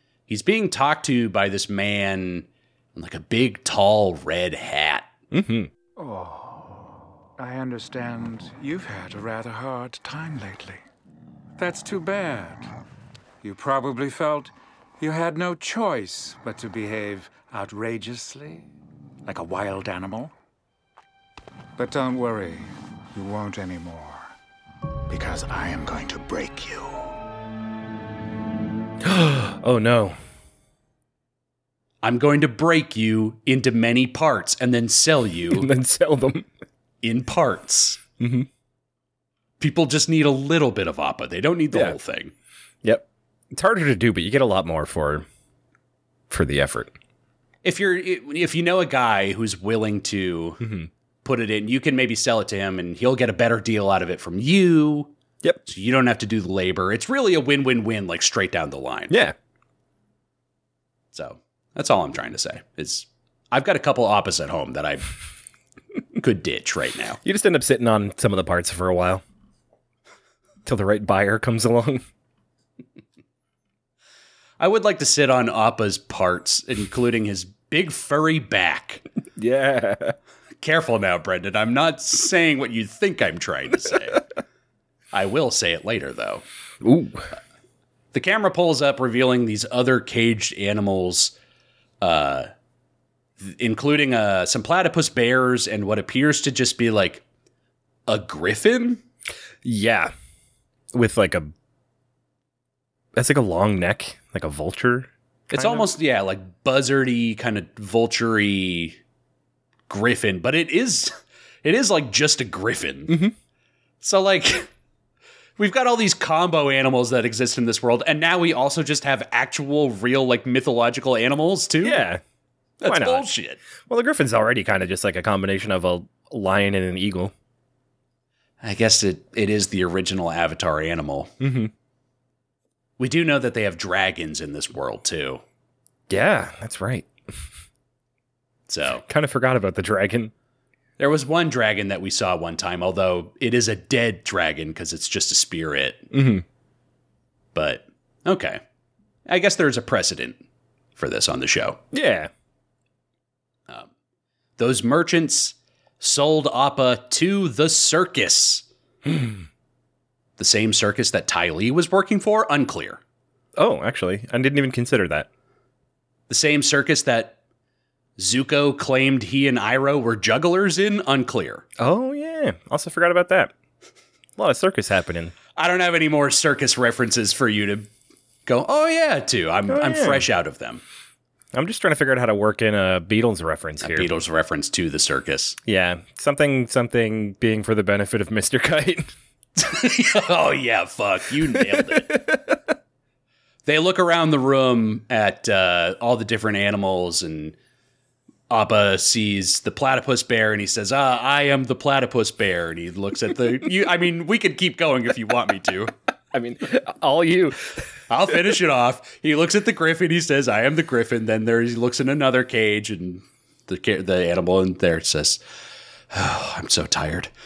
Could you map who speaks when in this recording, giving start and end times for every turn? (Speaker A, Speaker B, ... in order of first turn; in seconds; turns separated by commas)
Speaker A: 0.3-5.1, Speaker B: 5.3-5.7, Speaker C: 6.0-6.8, Speaker C: 7.4-10.8, Speaker C: 11.6-12.7, Speaker C: 13.4-18.7, Speaker C: 19.3-20.3, Speaker C: 21.8-24.3, Speaker C: 25.1-27.1, Speaker B: 29.0-30.2, Speaker A: 32.0-35.7, Speaker B: 35.5-36.5, Speaker A: 37.0-38.0, Speaker B: 38.2-38.5, Speaker A: 39.6-42.3, Speaker B: 42.8-45.3, Speaker B: 46.3-46.9, Speaker A: 47.6-50.6, Speaker B: 50.6-50.9, Speaker A: 51.2-55.1, Speaker A: 55.6-59.2, Speaker B: 59.1-59.4, Speaker A: 61.1-65.1, Speaker A: 66.2-67.2, Speaker B: 67.2-69.2, Speaker B: 70.7-72.0, Speaker A: 74.6-79.0, Speaker B: 79.4-80.2, Speaker A: 80.6-84.2, Speaker A: 85.1-86.4, Speaker B: 86.8-87.3, Speaker A: 88.1-91.3, Speaker A: 92.0-92.5, Speaker A: 93.4-97.2, Speaker A: 98.1-99.0, Speaker B: 99.6-100.1, Speaker B: 100.9-101.5, Speaker B: 103.2-105.9, Speaker A: 105.5-109.0, Speaker A: 109.9-111.1, Speaker A: 111.6-113.2, Speaker B: 113.1-113.3, Speaker A: 114.0-114.7, Speaker A: 115.6-122.0, Speaker B: 121.8-122.2, Speaker A: 122.8-123.6, Speaker B: 122.8-123.3, Speaker B: 123.8-127.3, Speaker A: 128.6-131.3, Speaker B: 131.4-131.7, Speaker A: 133.0-135.4, Speaker B: 136.1-137.1, Speaker A: 138.7-139.0, Speaker B: 138.9-140.3, Speaker A: 141.0-146.1, Speaker B: 146.1-146.4, Speaker A: 147.6-148.6, Speaker A: 149.3-150.4, Speaker A: 151.0-151.8, Speaker B: 151.9-152.3, Speaker A: 154.6-158.7, Speaker B: 159.1-159.4, Speaker A: 160.4-163.0, Speaker B: 163.6-165.3, Speaker A: 166.3-167.4, Speaker A: 168.2-171.7, Speaker B: 171.8-173.5, Speaker B: 174.4-175.3, Speaker A: 175.6-177.9, Speaker A: 178.5-180.8, Speaker B: 179.7-180.2, Speaker B: 181.5-184.1, Speaker A: 183.8-185.6, Speaker B: 185.7-189.1, Speaker A: 189.6-192.2, Speaker B: 191.7-192.6, Speaker A: 193.7-197.6, Speaker A: 198.5-205.9, Speaker B: 206.3-207.8, Speaker A: 208.1-215.4, Speaker A: 216.1-217.3